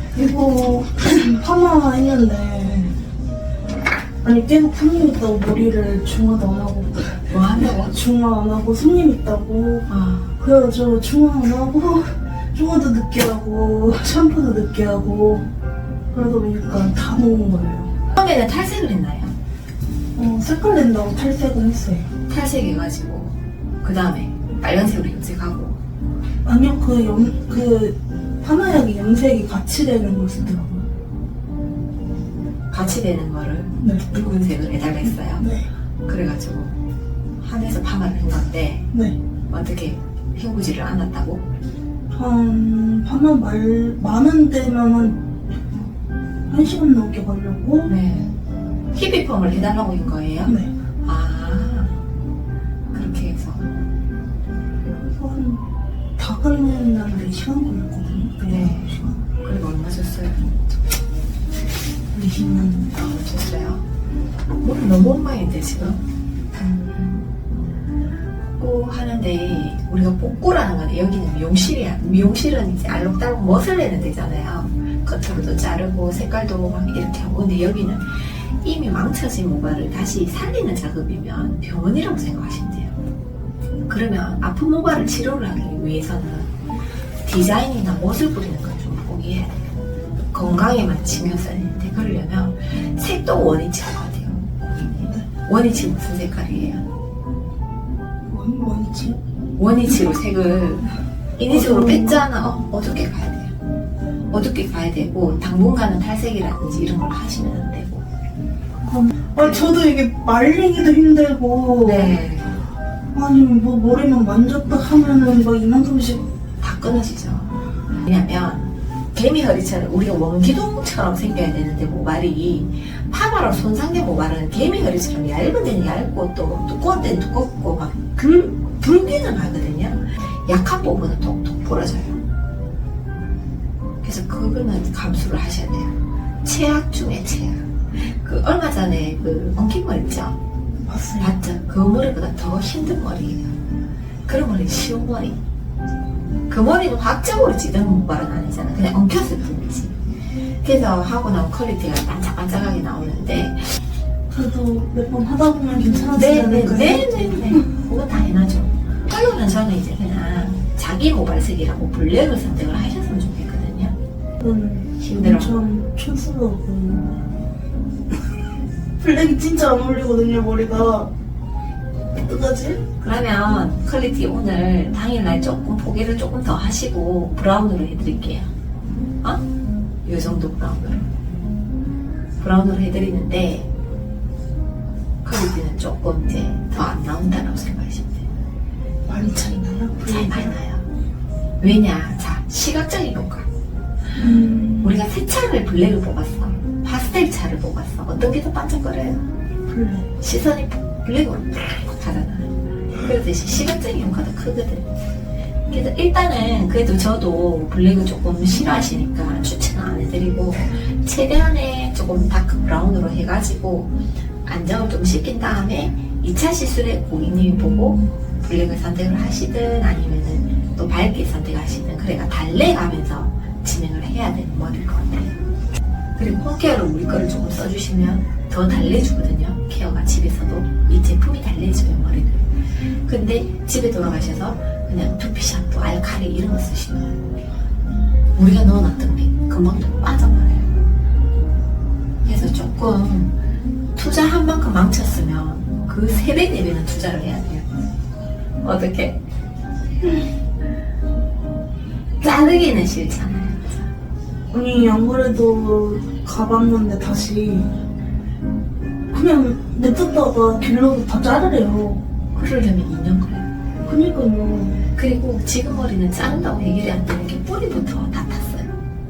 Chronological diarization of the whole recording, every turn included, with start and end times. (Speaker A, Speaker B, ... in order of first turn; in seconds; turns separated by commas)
Speaker A: 0.1-2.9, Speaker A: 4.2-7.3, Speaker B: 7.3-8.0, Speaker A: 7.8-9.9, Speaker B: 9.9-10.3, Speaker A: 10.4-15.5, Speaker A: 16.1-17.9, Speaker B: 18.2-19.3, Speaker A: 20.2-22.1, Speaker B: 22.3-25.8, Speaker A: 26.4-30.6, Speaker B: 30.5-30.8, Speaker B: 32.7-35.5, Speaker A: 33.8-34.4, Speaker A: 35.4-35.7, Speaker B: 36.1-36.8, Speaker B: 37.4-38.9, Speaker A: 38.9-39.2, Speaker B: 39.5-41.5, Speaker A: 42.1-45.2, Speaker A: 46.5-47.9, Speaker B: 47.9-48.3, Speaker B: 48.9-52.0, Speaker A: 50.5-50.7, Speaker B: 52.9-53.7, Speaker A: 54.8-55.6, Speaker A: 56.2-59.0, Speaker B: 58.5-60.8, Speaker A: 62.1-62.9, Speaker B: 62.9-63.9, Speaker B: 64.6-66.0, Speaker B: 66.5-67.3, Speaker B: 68.6-83.0, Speaker B: 83.9-86.5, Speaker B: 87.2-89.6, Speaker B: 90.3-96.8, Speaker A: 98.3-99.2, Speaker B: 99.6-103.5, Speaker A: 101.5-102.3, Speaker B: 104.3-108.0, Speaker A: 108.9-112.2, Speaker B: 109.4-109.6, Speaker B: 111.8-112.6, Speaker A: 113.1-116.2, Speaker B: 116.6-132.2, Speaker B: 134.0-140.4, Speaker A: 140.9-141.3, Speaker B: 141.2-143.5, Speaker B: 144.3-145.4, Speaker B: 146.5-150.0, Speaker B: 150.6-153.6, Speaker A: 154.3-157.6, Speaker B: 156.2-164.0, Speaker A: 164.4-167.2, Speaker B: 165.0-165.6, Speaker A: 169.0-171.1, Speaker A: 172.2-172.8, Speaker B: 173.0-178.5, Speaker B: 180.1-181.1, Speaker B: 182.4-183.7, Speaker B: 185.2-188.3, Speaker A: 189.1-190.6, Speaker B: 190.0-190.9, Speaker B: 191.6-193.5, Speaker A: 194.2-195.0, Speaker B: 194.8-199.2, Speaker A: 199.7-200.1, Speaker B: 200.2-204.9, Speaker B: 205.7-213.9, Speaker B: 214.5-225.4, Speaker B: 226.2-232.5, Speaker B: 233.1-237.2, Speaker B: 238.4-240.7, Speaker B: 242.2-243.3, Speaker B: 244.0-247.7, Speaker B: 248.6-249.2, Speaker B: 252.2-253.9, Speaker A: 254.5-257.7, Speaker A: 259.1-262.0, Speaker B: 262.3-263.5, Speaker A: 263.9-264.9, Speaker B: 265.0-268.7